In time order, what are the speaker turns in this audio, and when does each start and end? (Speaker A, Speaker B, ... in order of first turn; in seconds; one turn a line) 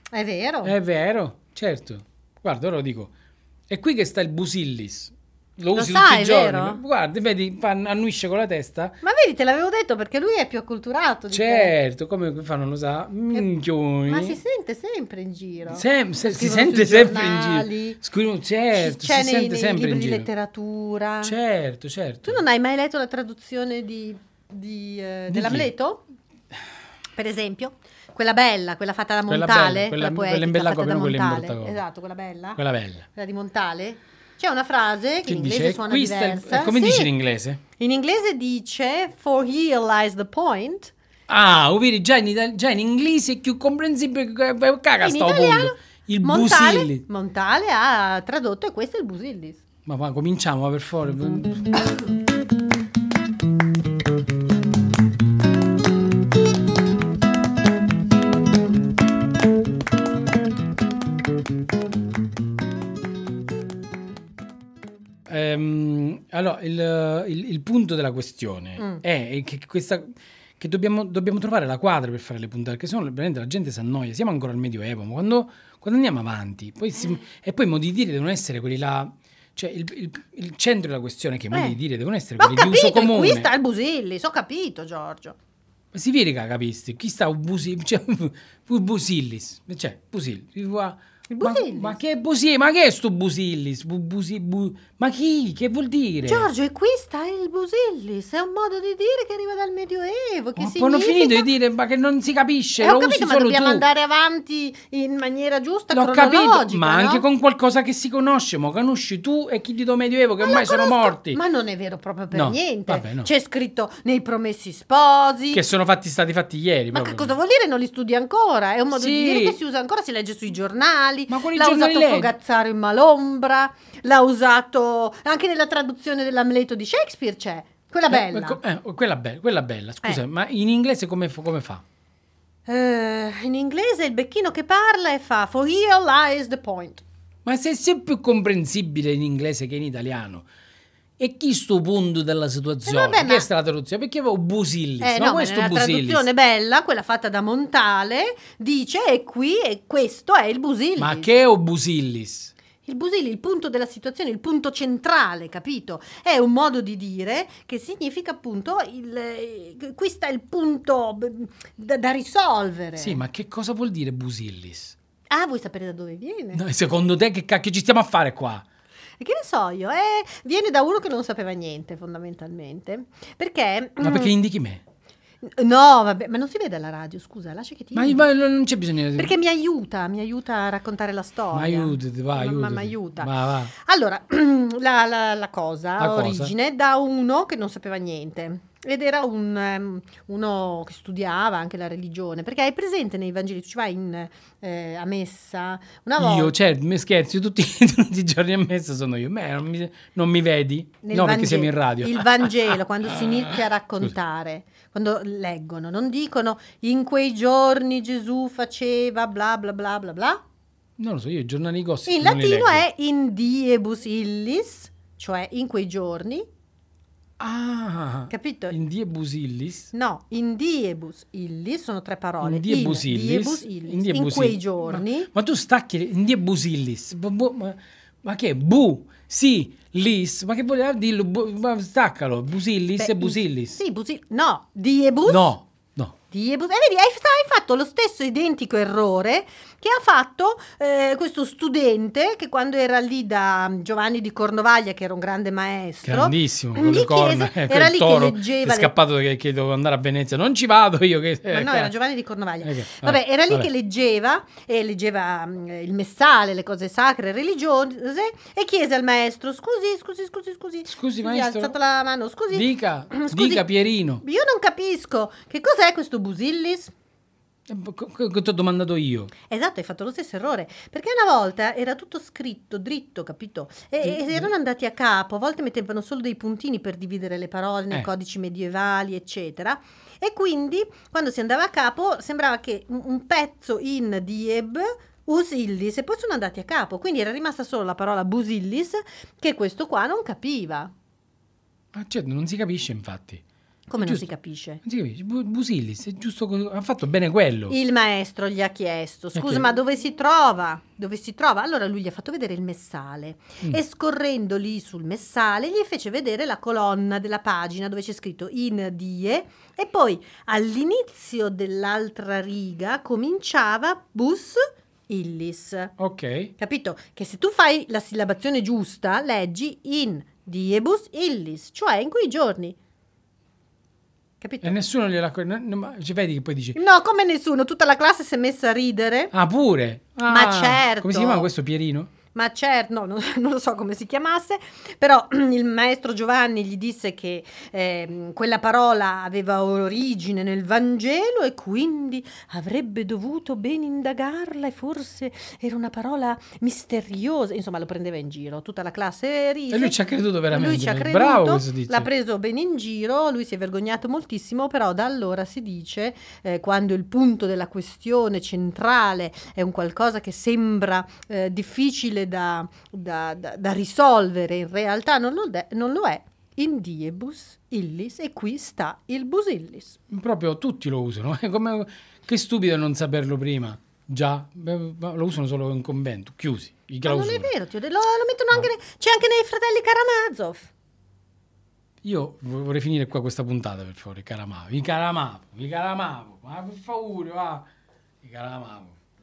Speaker A: 0.1-0.7
Speaker B: 0.6-3.1
Speaker B: 3.7-9.0
Speaker A: 5.7-6.8
Speaker A: 9.0-11.7
Speaker B: 11.3-14.4
Speaker A: 14.1-18.0
Speaker B: 15.7-20.3
Speaker A: 18.7-21.3
Speaker B: 21.2-22.4
Speaker A: 22.2-26.0
Speaker B: 25.3-25.7
Speaker A: 27.1-32.6
Speaker B: 29.3-31.8
Speaker B: 32.6-33.0
Speaker A: 33.1-37.1
Speaker B: 35.2-37.6
Speaker A: 37.8-40.9
Speaker B: 41.3-47.0
Speaker A: 45.0-49.6
Speaker B: 49.9-51.6
Speaker B: 65.3-70.1
Speaker B: 70.6-83.5
Speaker A: 82.4-85.4
Speaker B: 85.9-96.5
Speaker A: 91.3-92.0
Speaker A: 96.2-101.5
Speaker B: 100.5-103.8
Speaker A: 102.8-107.2
Speaker B: 105.9-111.4
Speaker A: 110.4-115.6
Speaker B: 112.3-113.3
Speaker B: 115.5-117.3
Speaker A: 116.9-128.6
Speaker B: 118.9-119.6
Speaker B: 121.3-122.3
Speaker B: 128.1-131.8
Speaker A: 132.7-137.0
Speaker B: 137.4-140.4
Speaker B: 141.2-146.2
Speaker A: 142.8-143.4
Speaker A: 145.0-151.3
Speaker B: 151.0-152.5
Speaker A: 152.8-163.2
Speaker B: 163.0-164.9
Speaker A: 165.3-166.6
Speaker B: 166.5-168.6
Speaker A: 169.2-174.3
Speaker B: 174.0-174.8
Speaker A: 175.4-178.2
Speaker B: 177.9-179.3
Speaker A: 179.2-196.5
Speaker B: 181.5-183.7
Speaker B: 186.0-186.5
Speaker B: 196.2-204.1
Speaker A: 201.0-210.4
Speaker B: 211.0-212.8
Speaker A: 212.1-216.4
Speaker B: 217.4-219.9
Speaker A: 218.3-218.8
Speaker A: 219.9-225.3
Speaker B: 222.4-233.8
Speaker A: 233.0-235.5
Speaker B: 235.2-236.1
Speaker A: 236.3-248.9
Speaker B: 246.0-251.9
Speaker A: 251.5-263.6
Speaker B: 252.6-253.7
Speaker B: 260.9-261.8
Speaker B: 262.5-264.2
Speaker A: 264.2-266.9
Speaker B: 267.7-269.3
Speaker A: 269.5-290.9
Speaker B: 274.0-274.5
Speaker B: 291.9-293.4
Speaker A: 293.9-294.8
Speaker B: 294.8-297.8
Speaker A: 297.7-315.9
Speaker B: 299.3-299.6
Speaker B: 316.0-316.5
Speaker A: 316.6-322.8
Speaker A: 324.4-324.8
Speaker B: 324.6-326.8
Speaker A: 326.8-329.3
Speaker B: 329.3-332.1
Speaker A: 330.2-331.5
Speaker A: 332.3-349.9
Speaker B: 349.7-352.1
Speaker A: 350.5-370.0
Speaker B: 370.1-377.5
Speaker A: 377.0-380.7
Speaker B: 382.0-387.6
Speaker B: 388.2-389.0